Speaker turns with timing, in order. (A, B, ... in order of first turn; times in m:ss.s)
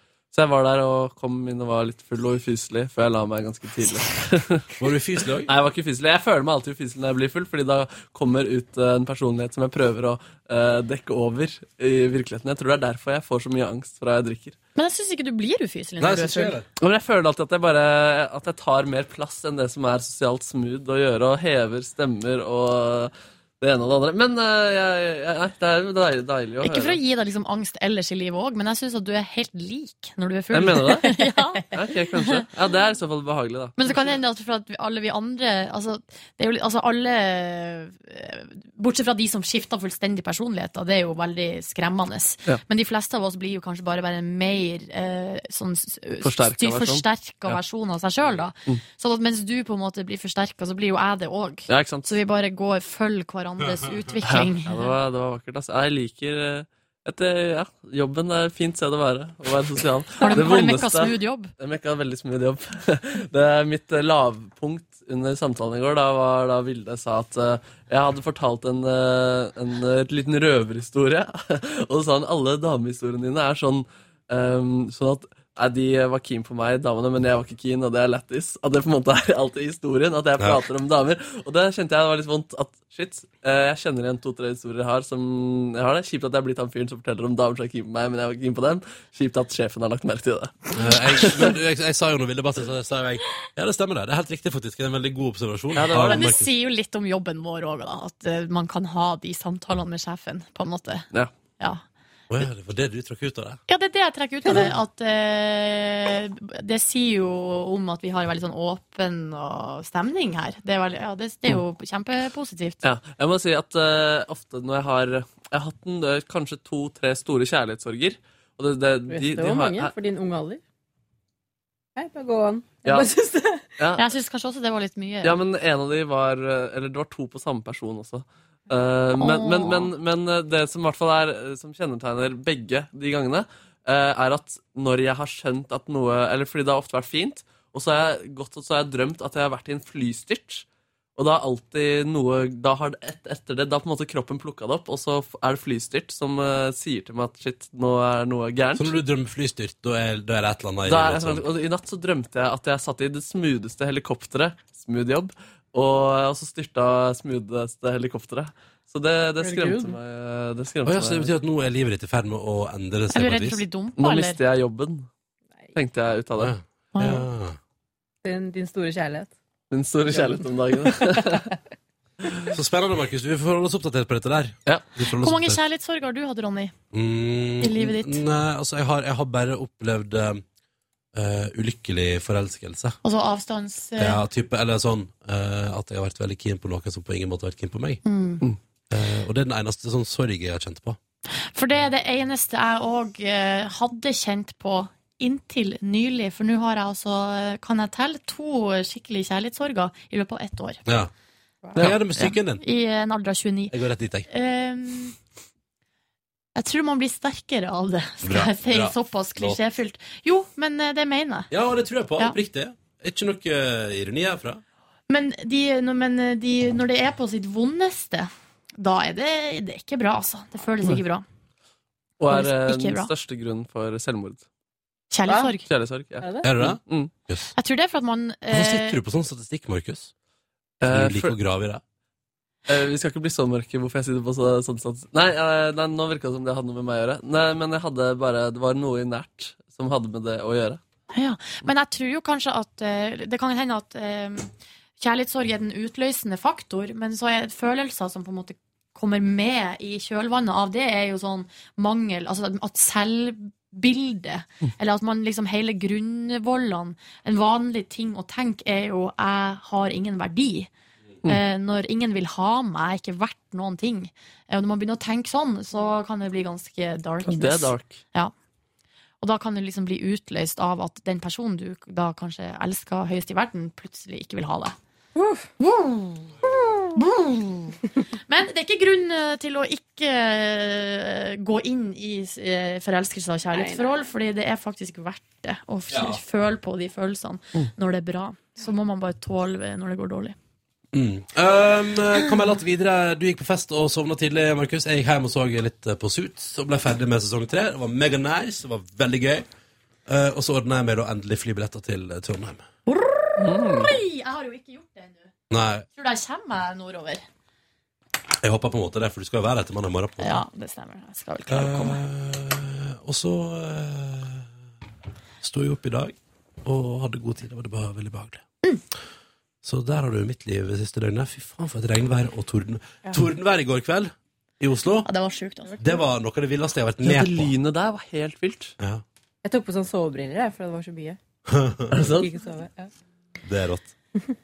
0:00.3-0:04.7 A
0:04.8-0:05.5 B
0:05.4-0:14.6 A
0:14.8-0:16.6 C
0:16.0-0:16.7 B
0:16.8-0:27.0 A
0:26.6-0:32.5 C
0:30.5-0:34.2 A
0:33.8-0:54.9 C
0:46.2-0:47.6 A
0:51.7-0:52.1 A
0:54.2-1:31.5 A
1:00.2-1:01.5 C
1:30.7-1:36.5 B
1:35.7-1:36.4 A
1:35.8-1:41.8 C
1:42.3-1:43.6 B
1:43.7-1:52.8 C
1:52.8-1:59.9 A
1:59.1-2:00.6 D
2:02.0-2:03.7 D
2:02.8-2:03.1 A
2:03.8-2:04.0 A
2:04.0-2:05.4 C
2:05.2-2:20.6 A
2:09.2-2:09.9 C
2:21.2-2:29.0 A
2:28.7-2:31.5 B
2:30.8-2:41.3 A
2:39.4-2:40.0 D
2:40.8-2:43.6 B
2:43.1-2:44.4 C
2:44.0-2:45.1 A
2:45.7-2:46.5 A
2:46.4-2:47.6 B
2:46.9-2:47.2 C
2:48.2-2:49.3 D
2:49.7-2:51.5 A
2:50.1-2:51.5 D
2:52.5-2:55.6 B
2:55.1-2:56.7 C
2:56.9-3:00.4 B
2:57.6-2:58.2 C
3:01.1-3:03.0 B
3:03.0-3:04.2 C
3:04.0-3:08.0 B
3:08.0-3:08.4 C
3:08.9-3:11.0 B
3:11.4-3:20.8 C
3:20.8-3:21.1 B
3:21.8-3:22.1 A
3:21.8-3:22.6 B
3:22.2-3:23.7 C
3:23.7-3:24.3 B
3:24.3-3:25.2 C
3:26.5-3:31.5 C
3:28.2-3:29.6 B
3:31.5-3:34.6 B
3:35.1-3:41.2 C
3:42.2-3:44.4 A
3:42.3-3:43.1 C
3:45.1-3:45.6 C
3:45.3-3:45.5 D
3:45.6-3:47.1 A
3:46.2-3:46.5 D
3:46.4-3:47.5 B
3:47.5-3:49.0 C
3:48.5-3:50.1 B
3:50.8-3:51.3 A
3:50.8-3:51.8 B
3:52.7-4:00.8 A
4:01.1-4:20.7 C
4:21.2-4:28.3 C
4:27.2-4:28.0 A
4:29.2-4:34.8 C
4:35.1-4:35.5 D
4:35.6-4:36.3 C
4:36.9-4:50.4 C
4:43.5-4:44.1 D
4:45.9-4:46.2 B
4:50.9-4:59.4 B
5:00.0-5:02.6 B
5:02.9-5:05.3 C
5:03.4-5:03.9 A
5:05.5-5:05.8 B
5:05.9-5:07.2 C
5:08.4-5:10.4 B
5:10.2-5:12.0 C
5:11.5-5:14.5 B
5:15.4-5:18.4 B
5:19.6-5:25.1 B
5:25.0-5:25.8 C
5:25.8-5:27.5 B
5:27.0-5:28.7 A
5:29.4-5:31.2 D
5:31.5-5:32.0 B
5:31.9-5:32.3 A
5:32.0-5:32.9 D
5:33.4-5:33.9 B